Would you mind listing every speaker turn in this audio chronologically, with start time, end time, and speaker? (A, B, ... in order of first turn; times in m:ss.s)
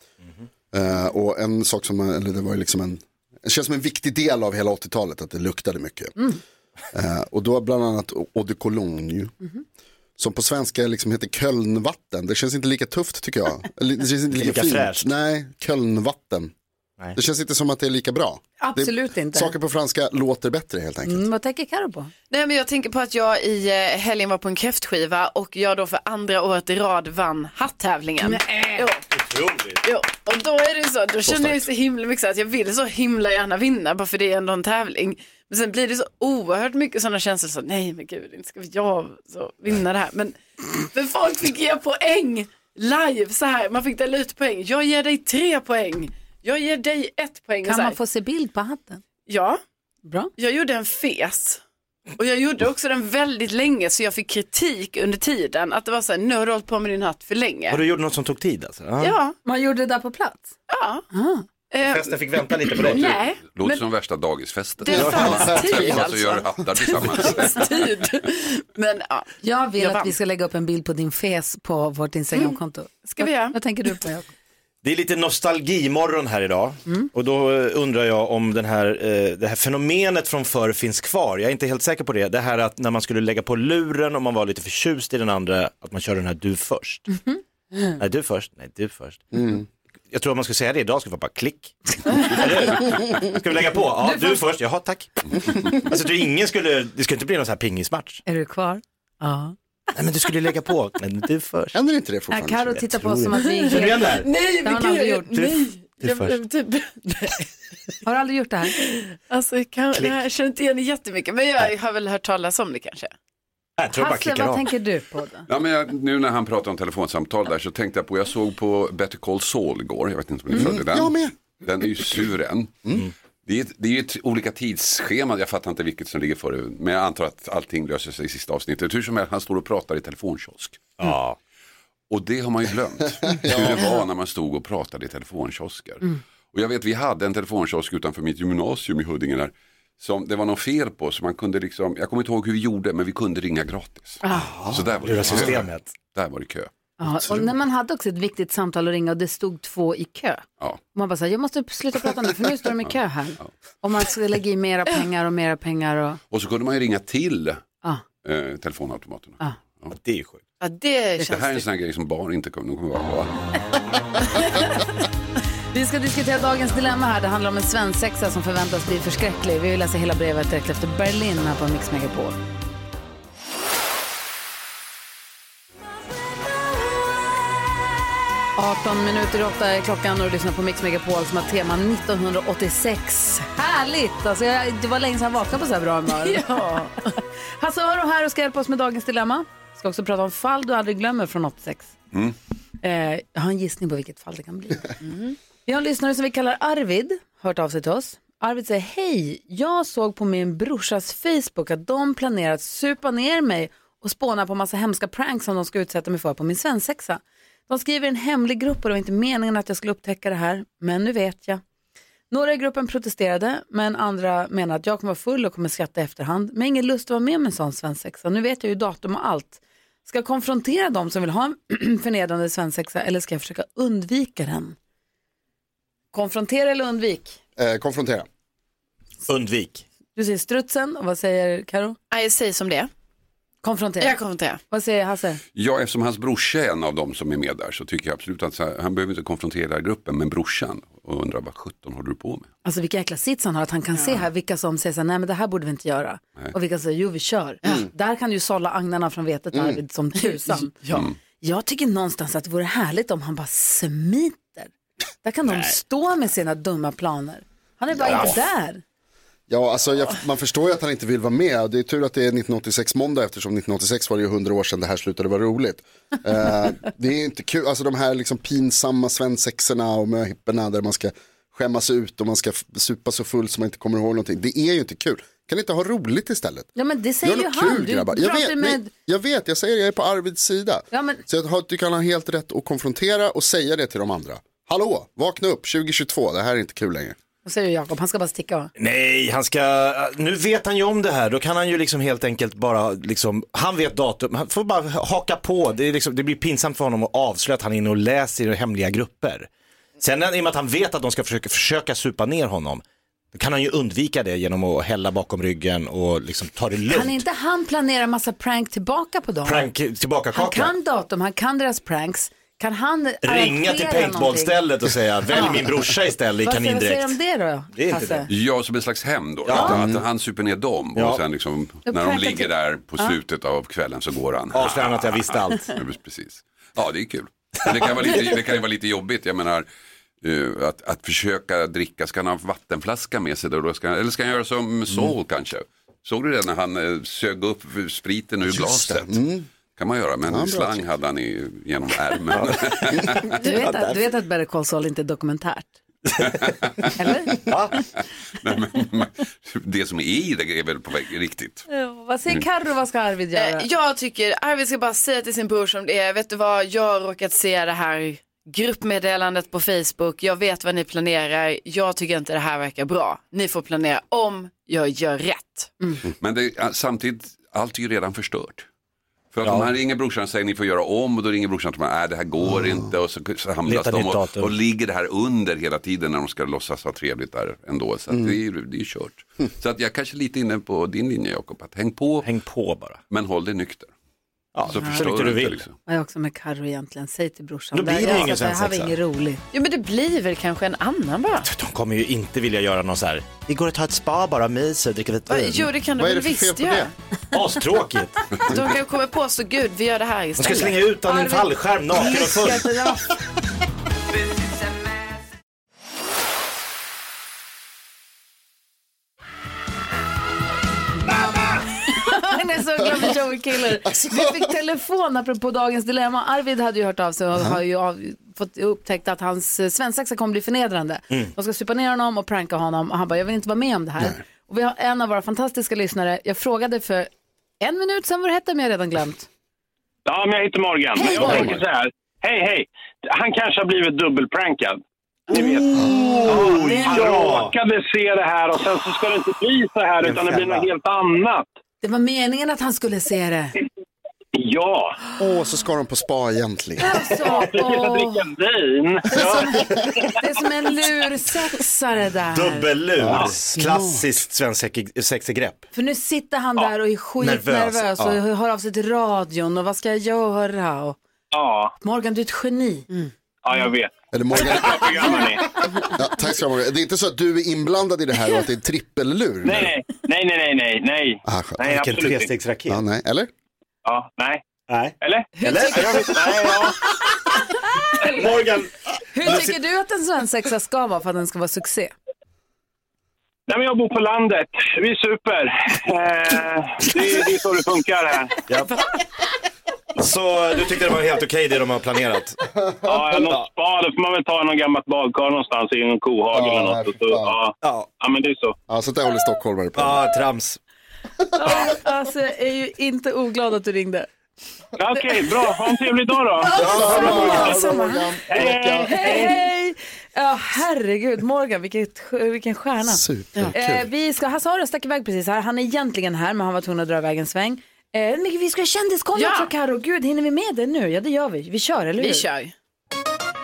0:00.7-0:06.1 A
0:06.9-0:09.3 A
0:10.2-0:16.5 A
0:14.3-0:15.1 B
0:17.1-0:21.3 A
0:18.6-0:19.5 C
0:21.0-0:22.1 C
0:22.3-0:29.0 D
0:28.2-0:28.9 C
0:29.2-0:29.8 B
0:29.8-0:48.0 D
0:31.2-0:31.6 B
0:47.6-0:49.0 C
0:49.3-0:49.6 D
0:50.4-0:51.6 D
0:52.2-0:57.8 D
0:57.7-0:59.2 B
0:59.0-0:59.3 D
0:59.4-1:00.5 C
1:00.7-1:01.0 D
1:01.1-1:01.4 C
1:01.7-1:03.8 D
1:01.8-1:03.2 B
1:02.8-1:07.8 E
1:04.8-1:10.1 D
1:04.9-1:05.8 B
1:04.9-1:06.0 A
1:09.4-1:14.3 C
1:13.1-1:13.6 D
1:14.8-1:27.1 B
1:27.1-1:27.4 C
1:28.0-1:38.2 B
1:29.3-1:29.6 A
1:32.1-1:32.8 C
1:34.0-1:34.4 C
1:38.2-1:39.5 C
1:39.9-1:41.8 B
1:41.7-1:43.3 A
1:42.3-1:45.3 C
1:43.4-1:47.4 D
1:43.7-1:44.3 B
1:45.3-1:46.4 B
1:48.0-1:48.8 C
1:48.7-1:53.1 D
1:53.8-1:54.7 B
1:53.9-1:55.5 C
1:55.5-2:02.8 E
2:00.5-2:01.4 A
2:03.4-2:11.0 E
2:11.0-2:11.4 B
2:12.1-2:27.5 E
2:13.2-2:13.9 A
2:24.2-2:24.5 C
2:24.6-2:26.0 B
2:24.6-2:25.6 A
2:27.0-2:36.2 C
2:32.8-2:33.5 E
2:36.3-2:37.6 E
2:38.2-2:39.9 E
2:39.9-2:40.4 B
2:40.6-2:41.6 D
2:41.2-2:43.4 E
2:45.7-2:52.4 C
2:58.6-3:06.4 C
3:06.1-3:07.0 D
3:07.0-3:11.9 C
3:12.8-3:14.9 C
3:15.0-3:15.4 D
3:15.7-3:31.6 C
3:32.3-3:44.8 C
3:46.1-3:47.4 C
3:47.6-3:48.3 A
3:49.3-3:49.8 B
3:50.2-3:52.0 C
3:52.1-3:52.9 D
3:53.6-3:54.2 C
3:54.0-3:54.6 D
3:54.7-3:55.4 C
3:55.5-4:02.5 E
4:02.6-4:10.7 C
4:04.0-4:04.2 D
4:09.5-4:09.8 A
4:10.9-4:11.2 E
4:11.4-4:14.7 C
4:15.2-4:18.8 C
4:17.9-4:18.3 A
4:19.5-4:36.7 A
4:36.7-4:38.9 C
4:37.2-4:47.2 A
4:40.9-4:41.2 C
4:47.4-4:48.7 C
4:48.8-4:59.5 B
5:00.0-5:02.8 B
5:03.3-5:07.2 B
5:06.9-5:09.7 C
5:09.4-5:10.7 B
5:10.3-5:14.5 C
5:13.2-5:17.1 B
5:15.3-5:15.6 C
5:16.4-5:18.3 C
5:17.7-5:18.3 B
5:18.3-5:29.6 E
5:19.4-5:19.9 B
5:19.6-5:20.0 A
5:20.9-5:21.2 B
5:21.8-5:23.1 C
5:24.5-5:25.8 B
5:30.2-5:39.2 E
5:38.4-5:39.4 A
5:39.8-5:43.2 E
5:40.2-5:40.8 A
5:42.3-5:44.0 B
5:43.3-5:45.7 C
5:46.4-5:46.9 E
5:47.0-5:47.3 C
5:47.5-5:47.8 B
5:48.4-5:51.7 E
5:51.7-5:53.7 C
5:53.3-6:05.7 D
6:06.1-6:08.7 E
6:09.3-6:22.3 E
6:09.4-6:09.7 B
6:13.6-6:14.5 B
6:22.2-6:23.0 B
6:23.1-6:23.9 E
6:24.5-6:25.6 B
6:24.6-6:25.7 E
6:24.7-6:25.0 C
6:25.9-6:29.4 C
6:27.7-6:28.9 B
6:29.5-6:31.5 D
6:31.4-6:35.7 B
6:35.3-6:36.9 D
6:36.0-6:36.9 A
6:37.3-6:38.2 B
6:38.5-6:41.4 D
6:40.4-6:42.7 B
6:41.1-6:41.4 C
6:42.0-6:43.0 C
6:42.2-6:42.7 D
6:51.8-7:07.1 C
6:57.3-6:57.6 A
7:07.6-7:09.3 C
7:10.0-7:21.5 F
7:10.9-7:11.6 C
7:11.2-7:11.6 B
7:11.2-7:11.5 A
7:15.4-7:17.5 B
7:15.8-7:16.4 A
7:16.0-7:17.0 C
7:20.0-7:20.7 B
7:21.8-7:23.5 C
7:24.3-7:25.0 F
7:25.2-7:27.0 A
7:26.8-7:28.3 C
7:27.4-7:30.1 F
7:29.0-7:32.7 C
7:29.2-7:29.6 A
7:32.3-7:35.6 B
7:33.0-7:34.1 A
7:35.7-7:41.0 C
7:37.2-7:38.1 B
7:41.3-7:41.7 F
7:41.8-7:42.9 C
7:43.4-7:45.6 F
7:44.1-7:45.3 A
7:45.9-7:49.7 A
7:49.4-7:52.3 F
7:51.2-7:51.6 A
7:51.6-7:52.8 B
7:52.7-7:53.3 A
7:53.8-7:54.4 F
7:54.7-7:56.7 B
7:55.0-7:56.8 F
7:55.4-7:56.2 C
7:58.0-7:59.6 B
7:59.1-8:01.9 C
8:03.5-8:08.4 F
8:08.5-8:08.8 B
8:10.0-8:12.4 B
8:12.8-8:18.6 F
8:16.3-8:17.3 A
8:17.6-8:17.9 B
8:18.7-8:20.0 A
8:19.7-8:20.6 B
8:21.3-8:24.1 C
8:24.8-8:27.4 F
8:26.4-8:28.2 C
8:26.5-8:29.2 A
8:26.6-8:27.6 B
8:28.3-8:29.3 F
8:28.8-8:42.2 C
8:32.8-8:33.8 A
8:39.1-8:39.5 D
8:42.0-8:42.5 D